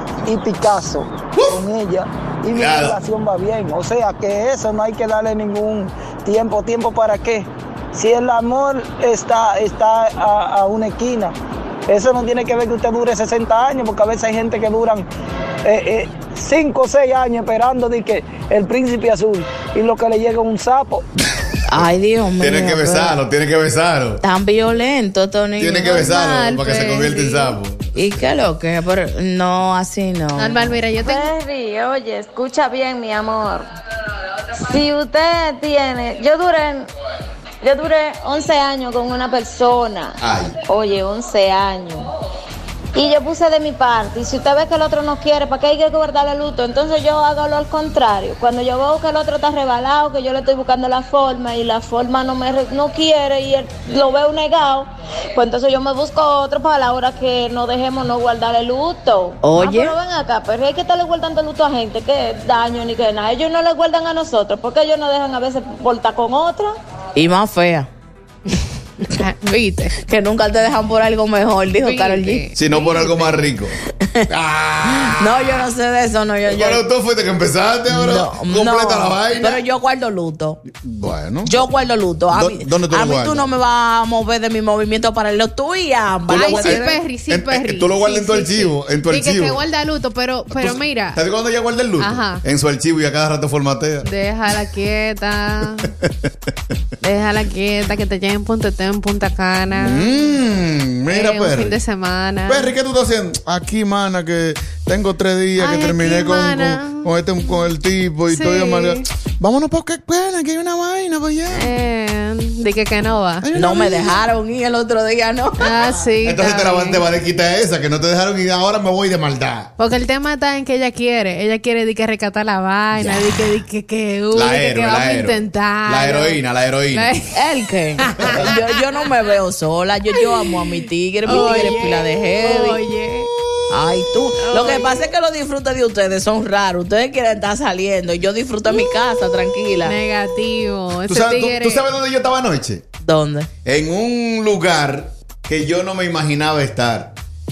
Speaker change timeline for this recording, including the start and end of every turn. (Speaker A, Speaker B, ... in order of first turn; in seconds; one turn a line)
Speaker A: 0.2-11.3
Speaker B: 2.5-2.9
Speaker A: 11.9-15.1
Speaker A: 15.6-21.0
Speaker C: 21.7-23.2
Speaker B: 21.7-24.2
Speaker C: 24.2-26.1
Speaker B: 25.6-28.3
Speaker D: 25.9-27.6
Speaker C: 27.9-30.7
Speaker D: 30.4-31.3
Speaker E: 31.0-33.6
Speaker E: 34.6-36.9
Speaker E: 37.6-42.1
Speaker B: 40.2-40.5
Speaker E: 42.9-66.7
Speaker C: 59.4-60.0
Speaker C: 67.2-67.9
Speaker D: 69.1-69.9
Speaker C: 70.0-72.5
Speaker D: 71.8-73.4
Speaker B: 72.5-75.4
Speaker C: 75.1-76.8
Speaker B: 76.5-79.6
Speaker C: 77.9-80.6
Speaker B: 80.7-81.6
Speaker C: 81.4-87.0
Speaker B: 82.3-83.5
Speaker B: 86.3-89.6
Speaker D: 86.3-91.2
Speaker B: 90.5-94.1
Speaker D: 92.0-92.4
Speaker D: 94.0-95.9
Speaker B: 95.8-96.5
Speaker D: 97.0-100.1
Speaker B: 99.7-101.8
Speaker D: 101.1-102.7
Speaker B: 102.5-111.7
Speaker D: 105.6-107.1
Speaker D: 108.3-109.1
Speaker D: 111.5-113.5
Speaker B: 113.4-114.2
Speaker C: 113.5-115.6
Speaker D: 115.6-117.0
Speaker B: 115.7-119.7
Speaker D: 119.8-126.4
Speaker B: 122.9-123.5
Speaker B: 124.3-127.1
Speaker D: 126.9-127.3
Speaker C: 127.3-132.8
Speaker D: 128.0-129.1
Speaker B: 128.2-128.5
Speaker D: 130.1-133.3
Speaker C: 133.7-139.9
Speaker D: 134.4-135.1
Speaker D: 139.8-141.9
Speaker B: 141.1-142.8
Speaker C: 143.0-143.5
Speaker B: 143.6-147.1